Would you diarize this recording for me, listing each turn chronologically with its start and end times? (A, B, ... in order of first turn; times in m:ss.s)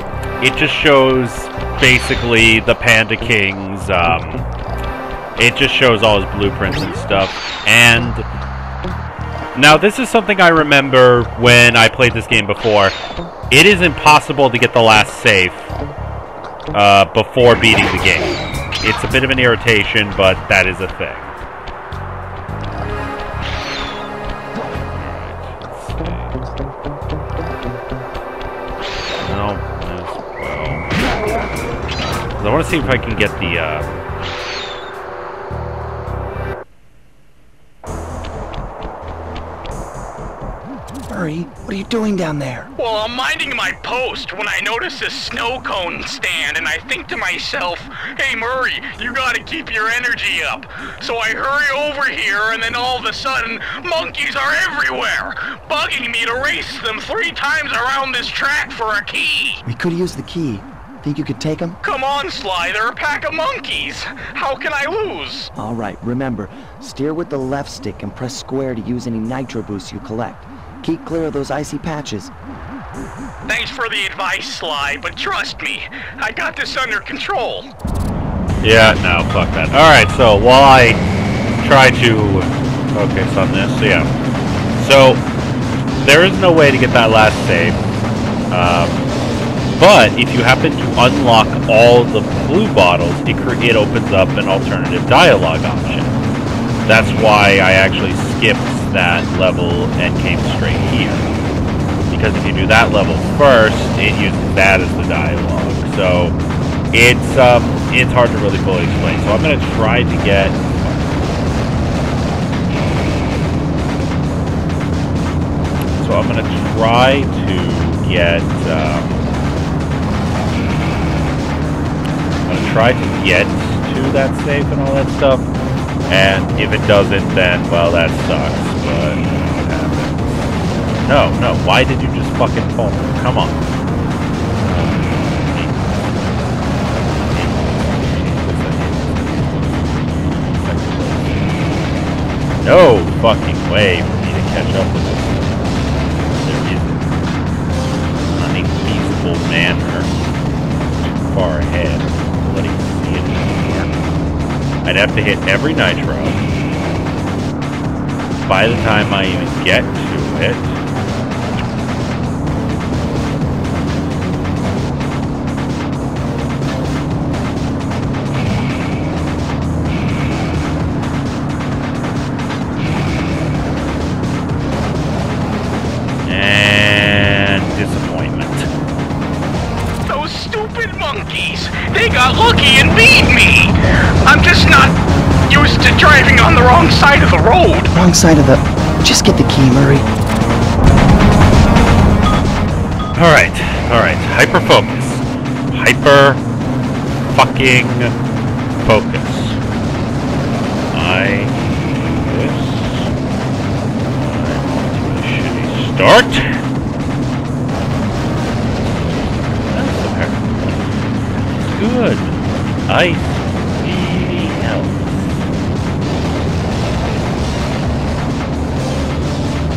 0:00.4-0:04.5 A
0:05.4-0:08.3 A
0:09.5-0:12.9 A
0:13.5-0:15.7 A
0:16.7-0:21.4 A
0:24.9-0:26.4 A
0:29.2-0:30.9 A
0:32.4-0:33.9 A
0:41.1-0:42.7 B
0:42.8-0:59.6 C
0:59.6-1:01.8 B
1:01.8-1:05.5 C
1:05.5-1:12.3 B
1:13.4-1:17.7 C
1:18.6-1:21.0 A
1:21.6-1:24.1 A
1:24.8-1:25.2 A
1:26.0-1:27.8 A
1:28.5-1:29.1 A
1:29.8-1:36.2 A
1:36.8-1:41.3 A
1:42.1-1:46.4 A
1:46.9-1:50.9 A
1:55.9-1:59.2 A
2:02.4-2:05.5 A
2:06.1-2:13.6 A
2:14.6-2:21.6 A
2:22.6-2:27.0 A
2:28.3-2:30.1 A
2:30.9-2:33.9 A
2:34.8-2:36.4 A
2:38.4-2:40.8 A
2:56.2-2:58.7 A
3:00.0-3:04.9 C
3:05.5-3:07.9 C
3:07.9-3:10.1 B
3:13.1-3:16.4 A
3:17.3-3:18.1 A
3:18.8-3:19.6 A
3:20.9-3:23.1 A
3:24.1-3:26.6 A
3:29.7-3:31.0 A
3:31.5-3:35.4 A